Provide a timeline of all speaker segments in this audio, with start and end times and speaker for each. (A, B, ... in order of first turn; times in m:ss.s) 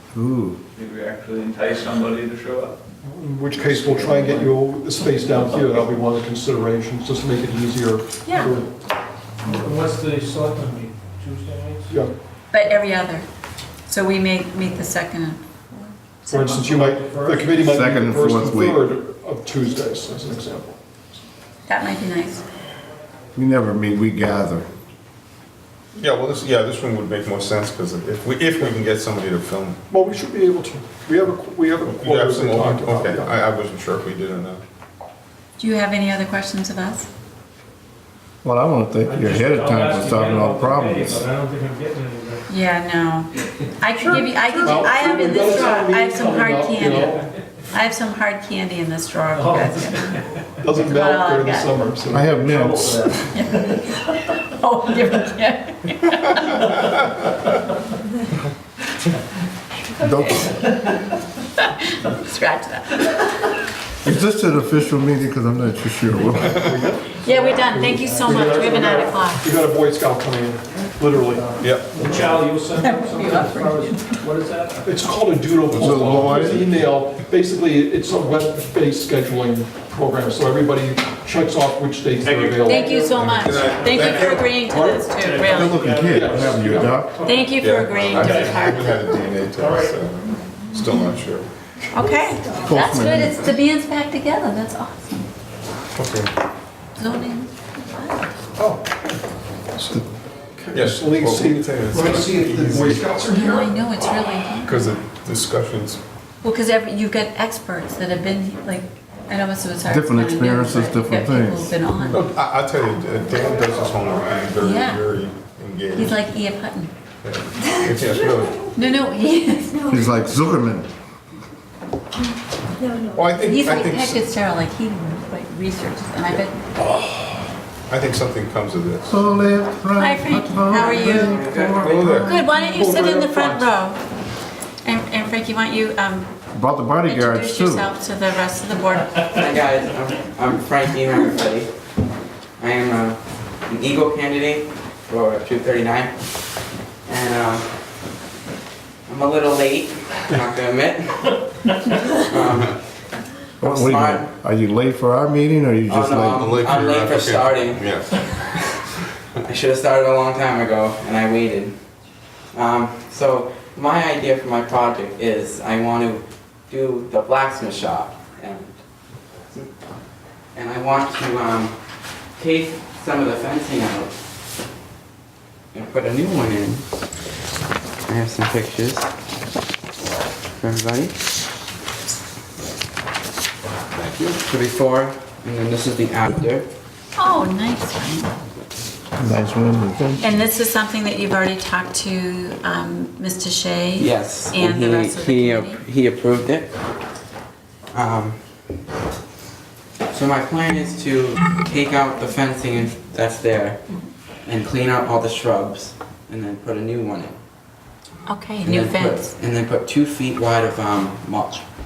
0:00.1-0:00.6 A
0:00.8-0:02.7 B
0:03.0-0:08.7 C
0:03.7-0:04.5 B
0:08.2-0:08.5 D
0:09.4-0:12.0 E
0:12.5-0:13.3 D
0:13.9-0:16.4 D
0:16.3-0:20.8 C
0:16.3-0:17.7 E
0:17.7-0:18.8 A
0:21.7-0:22.4 D
0:23.4-0:24.7 A
0:26.0-0:29.8 F
0:29.9-0:33.4 C
0:32.0-0:34.6 F
0:35.6-0:37.1 D
0:38.4-0:41.2 A
0:39.0-0:42.5 E
0:42.5-0:47.2 D
0:44.0-0:47.2 C
0:46.9-0:47.2 E
0:47.7-0:50.1 D
0:49.4-0:50.5 E
0:50.6-0:52.4 C
0:50.8-0:51.7 D
0:52.1-0:53.1 A
0:52.5-0:53.2 E
0:53.3-0:57.0 D
1:00.0-1:00.6 A
1:00.2-1:00.7 D
1:01.6-1:03.4 D
1:04.0-1:06.7 A
1:06.5-1:12.5 C
1:07.2-1:09.5 D
1:11.6-1:12.0 F
1:11.9-1:15.0 E
1:12.8-1:14.2 D
1:14.8-1:23.3 C
1:15.7-1:16.7 A
1:15.7-1:16.6 F
1:22.2-1:23.1 B
1:22.6-1:25.8 D
1:23.2-1:24.6 F
1:23.3-1:24.1 E
1:24.1-1:24.4 B
1:24.7-1:25.1 C
1:25.1-1:27.5 E
1:25.5-1:27.2 A
1:26.1-1:27.0 C
1:27.2-1:29.2 D
1:27.6-1:31.5 F
1:28.0-1:28.4 C
1:28.2-1:28.6 E
1:29.6-1:29.8 E
1:31.9-1:35.3 D
1:32.6-1:33.4 A
1:36.0-1:36.3 F
1:37.0-1:38.1 D
1:38.6-1:39.2 C
1:39.7-1:40.1 C
1:40.6-1:43.8 C
1:40.7-1:43.0 F
1:43.4-1:44.9 D
1:44.6-1:46.0 F
1:46.4-1:52.3 D
1:49.9-1:51.7 A
1:52.1-1:56.2 F
1:54.6-1:55.0 D
1:55.9-1:56.9 D
1:57.2-1:58.7 F
1:58.7-2:00.1 D
1:59.9-2:00.9 A
2:03.1-2:04.2 F
2:03.4-2:06.6 D
2:07.9-2:09.2 F
2:09.0-2:12.4 A
2:10.0-2:11.4 D
2:10.7-2:12.1 G
2:11.7-2:12.4 F
2:12.1-2:14.0 D
2:12.7-2:13.7 C
2:14.8-2:16.3 D
2:16.5-2:17.9 A
2:17.0-2:19.3 D
2:19.3-2:21.7 G
2:22.6-2:26.2 G
2:27.1-2:27.8 G
2:29.1-2:32.8 G
2:33.6-2:34.3 G
2:33.6-2:36.6 A
2:35.9-2:38.8 G
2:36.3-2:38.4 F
2:39.5-2:41.8 G
2:42.5-2:48.8 G
2:50.6-2:51.8 G
2:52.4-2:54.1 G
2:55.7-2:56.9 G
2:58.1-2:59.1 G
3:00.6-3:01.2 G
3:03.9-3:06.7 G
3:07.2-3:08.3 D
3:09.2-3:10.3 A
3:10.2-3:15.8 D
3:14.0-3:16.7 G
3:17.9-3:18.4 G
3:20.1-3:23.8 G
3:24.4-3:27.4 G
3:28.3-3:29.3 D
3:28.6-3:31.6 G